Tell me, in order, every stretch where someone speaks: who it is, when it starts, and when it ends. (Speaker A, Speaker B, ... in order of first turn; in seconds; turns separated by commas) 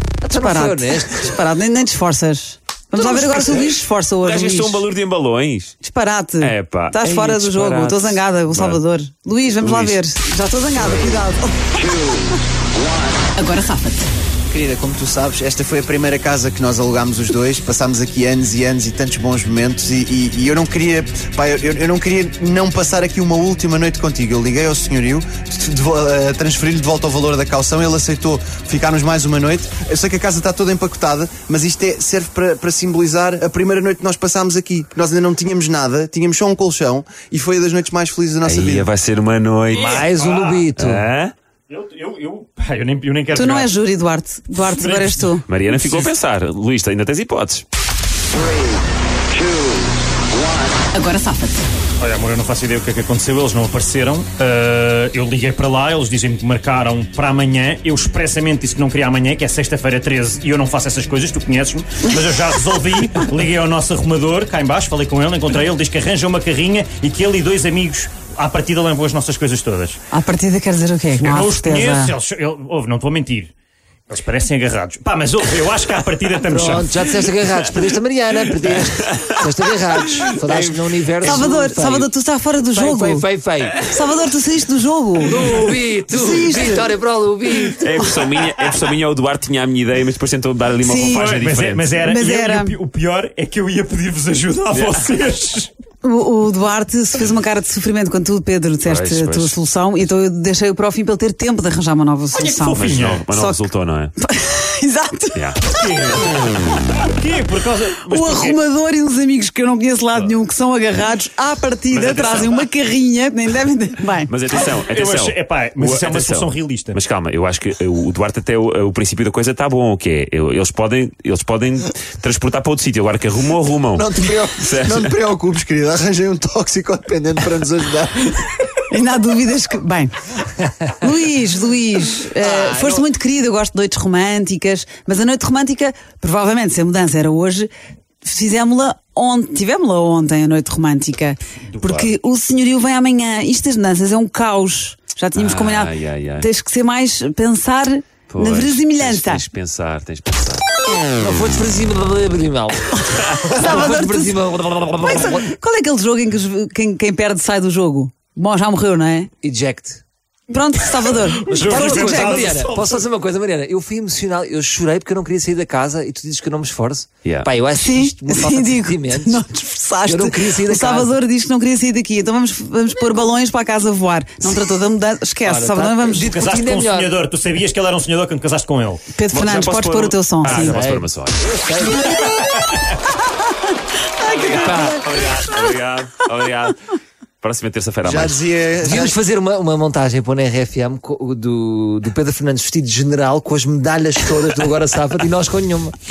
Speaker A: 0.2-1.4, Speaker B: 0.4-4.9, Speaker C: 3.0-5.8, Speaker B: 5.8-12.3, Speaker C: 6.4-8.8, Speaker C: 9.6-10.0, Speaker B: 13.4-14.1, Speaker D: 14.5-38.9, Speaker C: 38.5-40.0, Speaker E: 39.7-40.7, Speaker A: 39.8-41.1, Speaker C: 40.8-41.3, Speaker E: 41.7-43.7, Speaker B: 43.3-45.5, Speaker E: 44.7-46.1, Speaker C: 45.5-47.6, Speaker B: 50.9-51.7, Speaker E: 52.0-70.0, Speaker B: 70.1-72.2, Speaker E: 71.2-73.5, Speaker E: 74.1-77.4, Speaker A: 76.5-82.1, Speaker C: 79.1-79.4, Speaker C: 80.1-80.8, Speaker B: 81.2-83.3, Speaker A: 82.7-83.9, Speaker B: 83.8-86.9, Speaker A: 85.2-88.1, Speaker C: 87.8-92.0, Speaker B: 90.8-91.3, Speaker E: 91.0-95.7, Speaker B: 92.0-92.8, Speaker C: 94.7-95.0, Speaker B: 96.0-103.7, Speaker C: 98.8-99.6, Speaker E: 102.3-103.3, Speaker C: 102.7-104.1, Speaker B: 104.2-105.4, Speaker C: 105.3-105.6, Speaker E: 105.7-108.6, Speaker B: 108.1-114.3, Speaker C: 111.9-112.7, Speaker C: 114.3-125.1, Speaker E: 114.6-117.0, Speaker D: 123.9-128.3, Speaker B: 128.9-130.1, Speaker B: 130.9-137.7, Speaker A: 132.4-133.0, Speaker B: 138.2-149.4, Speaker C: 145.3-146.5, Speaker C: 148.3-150.7, Speaker A: 151.2-155.5, Speaker B: 153.4-154.4, Speaker B: 155.0-159.3, Speaker A: 159.4-160.0, Speaker B: 160.5-162.5, Speaker A: 161.3-169.4, Speaker E: 161.5-163.1, Speaker C: 167.2-167.5, Speaker B: 167.8-176.3, Speaker A: 170.1-171.2, Speaker A: 175.4-177.2, Speaker E: 176.1-179.0, Speaker B: 179.2-180.8, Speaker C: 179.3-181.5, Speaker A: 180.6-182.1, Speaker B: 184.2-185.4, Speaker A: 184.2-185.0, Speaker C: 184.4-186.8, Speaker C: 187.4-188.4, Speaker D: 188.0-189.2, Speaker A: 188.8-196.0